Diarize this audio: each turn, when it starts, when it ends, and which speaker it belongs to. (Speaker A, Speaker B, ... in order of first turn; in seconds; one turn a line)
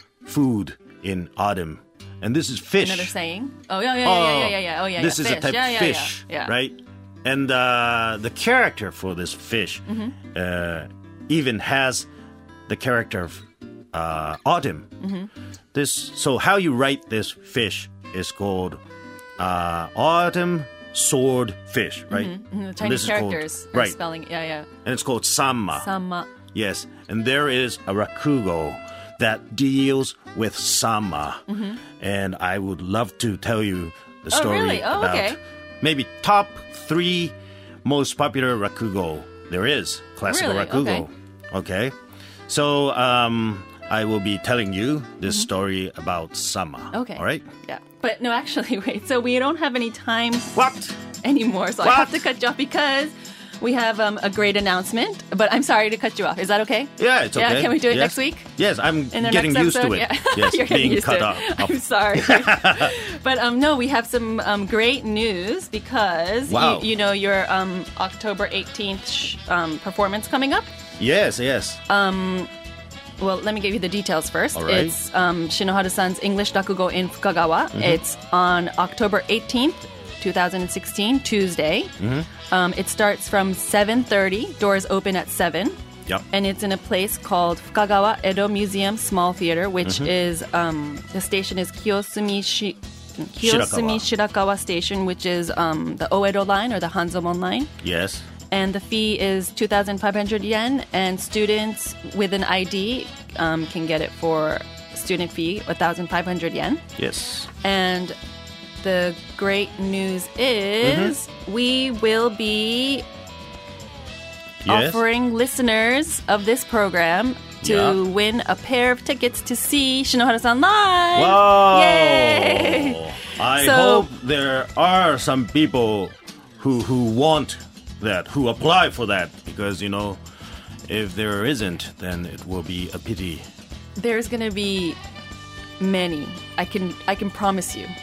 Speaker A: 0.2-3.1
Speaker B: 2.8-6.6
Speaker A: 4.0-12.1
Speaker B: 9.9-10.2
Speaker A: 12.7-14.9
Speaker B: 15.0-15.3
Speaker A: 15.7-18.8
Speaker A: 19.4-23.9
Speaker B: 22.1-24.7
Speaker A: 24.8-25.9
Speaker B: 25.8-26.3
Speaker A: 26.5-31.4
Speaker B: 31.5-31.8
Speaker A: 32.0-42.0
Speaker B: 34.3-35.4
Speaker B: 40.3-41.1
Speaker A: 42.5-47.5
Speaker B: 46.9-58.5
Speaker A: 50.5-50.9
Speaker A: 51.8-52.3
Speaker A: 57.0-63.0
Speaker B: 59.1-70.7
Speaker A: 66.5-66.9
Speaker A: 71.0-71.8
Speaker B: 71.9-72.5
Speaker B: 73.2-82.0
Speaker A: 74.5-75.0
Speaker A: 77.7-78.0
Speaker A: 82.0-82.3
Speaker B: 82.5-85.8
Speaker B: 86.3-97.7
Speaker A: 89.8-90.1
Speaker A: 93.4-94.1
Speaker A: 97.8-98.3
Speaker B: 98.5-106.8
Speaker A: 107.0-107.5
Speaker B: 107.6-108.2
Speaker B: 108.8-113.1
Speaker A: 110.8-111.2
Speaker A: 114.7-115.0
Speaker B: 114.7-124.1
Speaker A: 117.6-118.0
Speaker A: 121.2-130.2
Speaker A: 130.9-133.4
Speaker B: 134.0-135.0
Speaker B: 135.8-137.9